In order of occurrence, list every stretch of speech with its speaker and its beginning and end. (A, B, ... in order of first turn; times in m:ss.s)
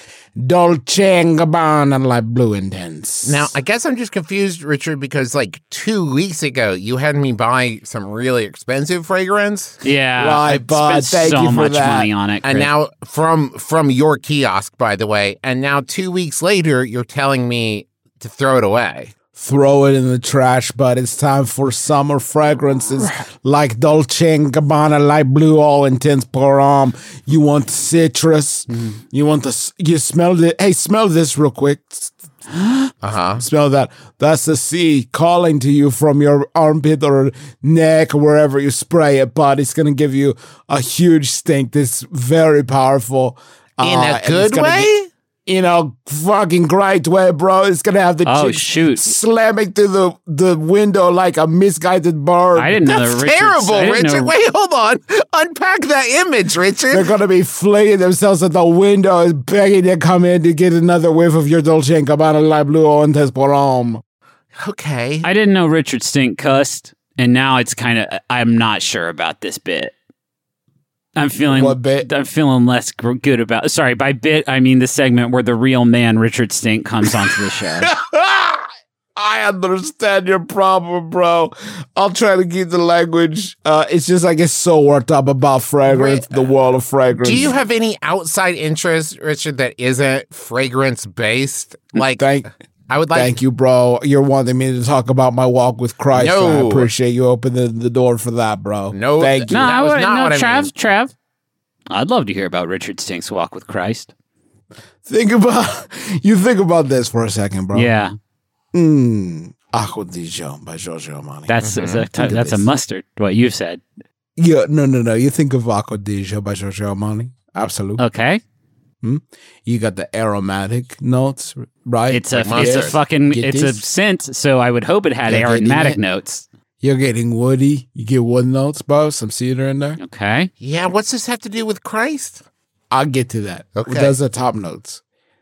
0:00.4-0:03.5 A
0:03.2-0:09.8 B
0:09.8-0:12.7 C
0:10.2-0:12.1 A
0:12.4-0:19.1 B
0:19.3-0:32.1 A
0:28.7-0:29.0 C
0:32.5-0:32.9 C
0:33.0-0:33.4 B
0:33.4-0:44.9 A
0:43.8-0:45.1 B
0:45.4-0:52.8 A
0:48.2-0:49.1 C
0:52.5-0:54.3 C
0:52.9-0:57.1 B
0:56.9-1:04.0 A
1:04.6-1:05.3 B
1:05.2-1:09.9 C
1:11.2-1:17.9 C
1:11.5-1:12.1 A
1:17.8-1:27.6 A
1:25.8-1:26.4 B
1:27.2-1:32.2 B
1:32.0-1:32.5 A
1:32.9-1:33.3 B
1:33.1-1:39.6 A
1:36.1-1:36.9 B
1:38.9-1:40.7 B
1:39.5-1:41.1 C
1:41.9-1:44.1 C
1:45.0-1:47.9 A
1:47.7-1:48.1 C
1:48.7-1:51.6 A
1:51.5-1:53.8 C
1:51.6-1:52.1 B
1:52.1-1:52.7 A
1:54.4-1:58.0 A
1:58.0-1:58.4 C
1:59.0-2:03.8 A
2:02.1-2:06.4 C
2:02.3-2:03.0 B
2:05.2-2:06.0 A
2:06.8-2:10.0 A
2:10.0-2:10.5 C
2:10.6-2:12.4 B
2:12.9-2:15.0 A
2:13.7-2:14.1 B